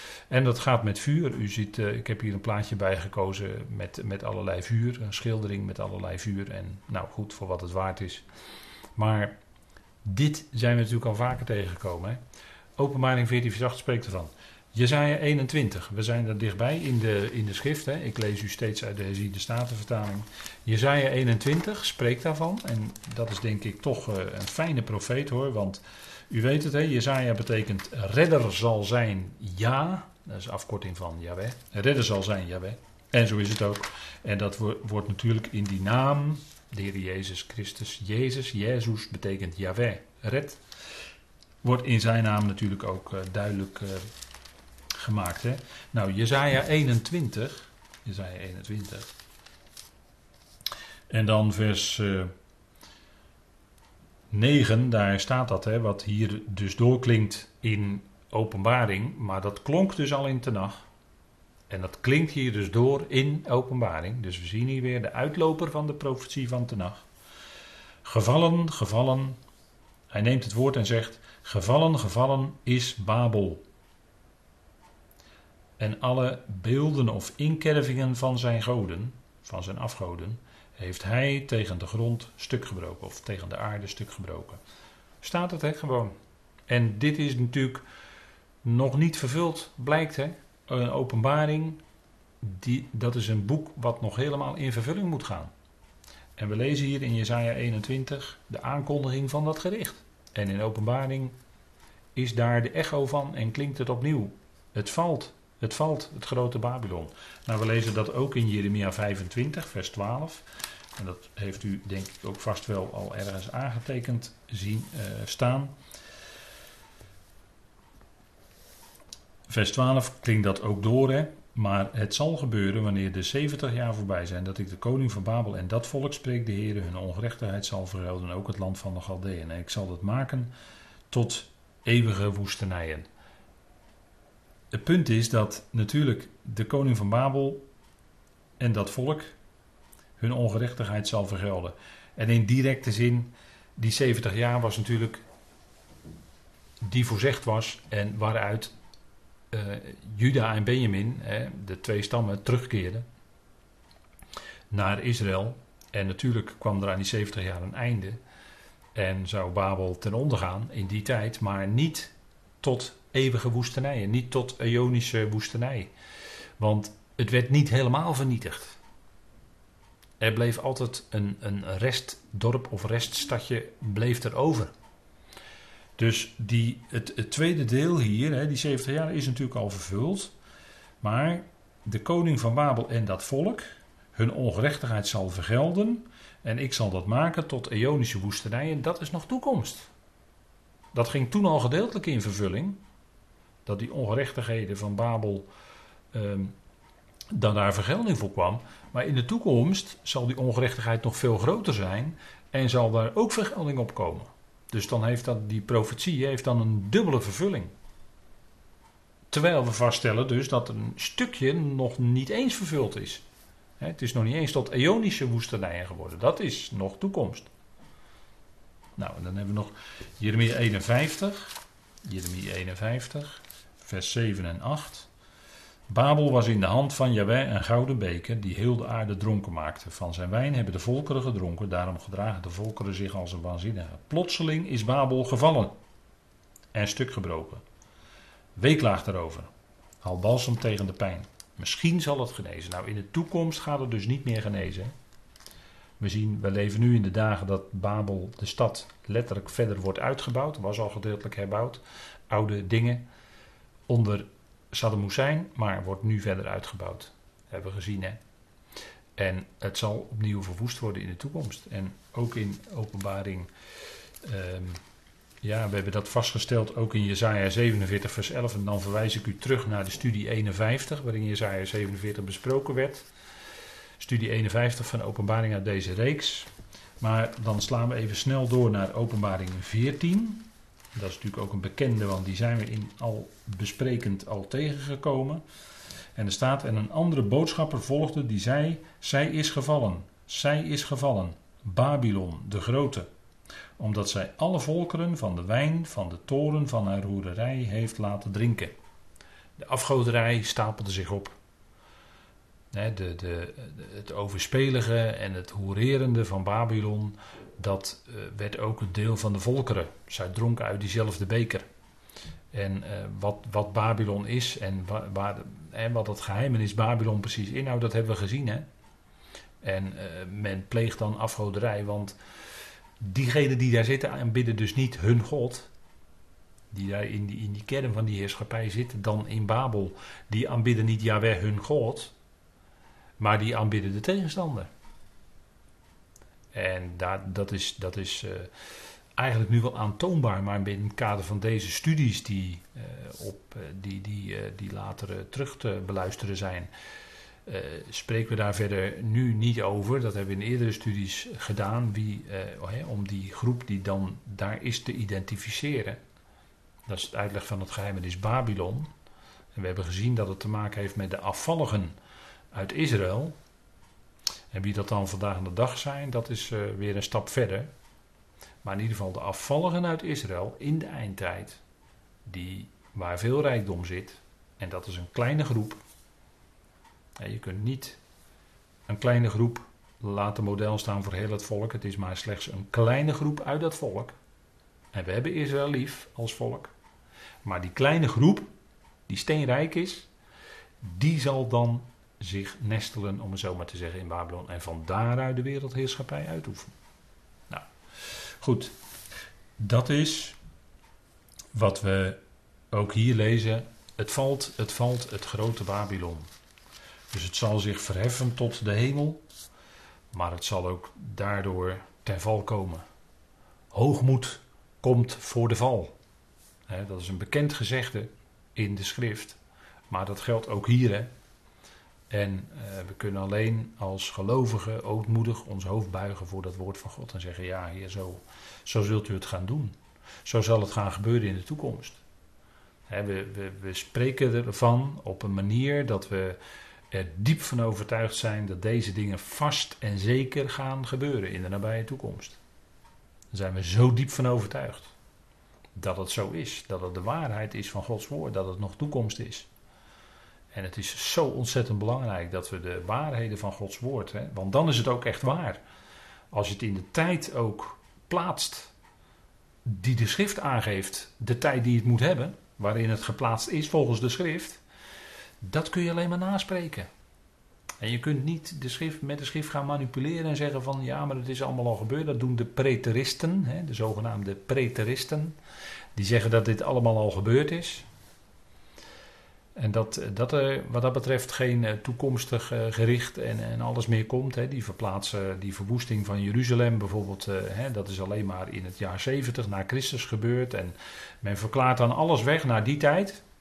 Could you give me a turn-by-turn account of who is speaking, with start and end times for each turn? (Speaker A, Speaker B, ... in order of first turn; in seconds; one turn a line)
Speaker A: 0.3-8.2
Speaker A: 8.9-9.3
Speaker A: 10.0-12.2
Speaker A: 12.8-40.6
Speaker A: 41.6-44.1
Speaker A: 45.0-49.1
Speaker A: 51.1-52.3
Speaker A: 54.3-60.8
Speaker A: 61.7-67.1
Speaker A: 68.0-69.4
Speaker A: 70.1-73.6
Speaker A: 75.8-84.6
Speaker A: 85.2-86.1
Speaker A: 86.7-87.8
Speaker A: 88.6-91.8
Speaker A: 92.4-95.5
Speaker A: 96.4-101.3
Speaker A: 102.1-110.4
Speaker A: 111.0-115.7
Speaker A: 119.5-130.5
Speaker A: 131.1-133.1
Speaker A: 134.7-137.6
Speaker A: 138.6-139.3
Speaker A: 140.2-145.2
Speaker A: 146.8-148.7
Speaker A: 149.5-153.0
Speaker A: 154.7-158.2
Speaker A: 158.9-165.9
Speaker A: 166.6-168.8
Speaker A: 170.2-174.7
Speaker A: 176.0-180.3
Speaker A: 181.0-189.9
Speaker A: 190.9-192.8
Speaker A: 193.6-195.5
Speaker A: 196.1-196.5
Speaker A: 197.3-207.7
Speaker A: 209.3-213.2
Speaker A: 213.8-217.5
Speaker A: 219.0-225.1
Speaker A: 225.9-235.8
Speaker A: 236.7-237.6
Speaker A: 238.6-239.5
Speaker A: 240.0-244.9
Speaker A: 246.0-253.0
Speaker A: 253.9-258.2
Speaker A: 259.1-263.5
Speaker A: 264.2-264.8
Speaker A: 265.4-273.1
Speaker A: 274.0-285.4
Speaker A: 286.1-293.1
Speaker A: 293.8-298.7
Speaker A: 299.6-301.4
Speaker A: 302.7-311.6
Speaker A: 312.5-318.6
Speaker A: 319.6-322.2
Speaker A: 323.0-325.7
Speaker A: 326.7-332.1
Speaker A: 333.2-334.7
Speaker A: 336.5-338.5
Speaker A: 339.1-346.7
Speaker A: 347.4-356.0
Speaker A: 356.9-358.9
Speaker A: 359.5-361.9
Speaker A: 362.5-363.4
Speaker A: 364.5-367.7
Speaker A: 368.6-371.6
Speaker A: 372.2-375.8
Speaker A: 377.2-378.0
Speaker A: 378.9-384.2
Speaker A: 384.9-386.7
Speaker A: 387.4-388.5
Speaker A: 389.1-390.1
Speaker A: 390.8-396.7
Speaker A: 397.5-398.7
Speaker A: 399.6-400.4
Speaker A: 401.5-402.2
Speaker A: 402.7-406.3
Speaker A: 407.1-409.2
Speaker A: 410.1-412.8
Speaker A: 413.7-415.9
Speaker A: 416.7-419.4
Speaker A: 419.9-421.1
Speaker A: 422.1-432.0
Speaker A: 432.9-436.4
Speaker A: 436.9-442.4
Speaker A: 443.3-444.9
Speaker A: 445.8-449.5
Speaker A: 450.5-455.6
Speaker A: 456.3-458.7
Speaker A: 459.6-464.6
Speaker A: 465.4-466.9
Speaker A: 467.8-475.4
Speaker A: 475.9-477.9
Speaker A: 479.6-493.2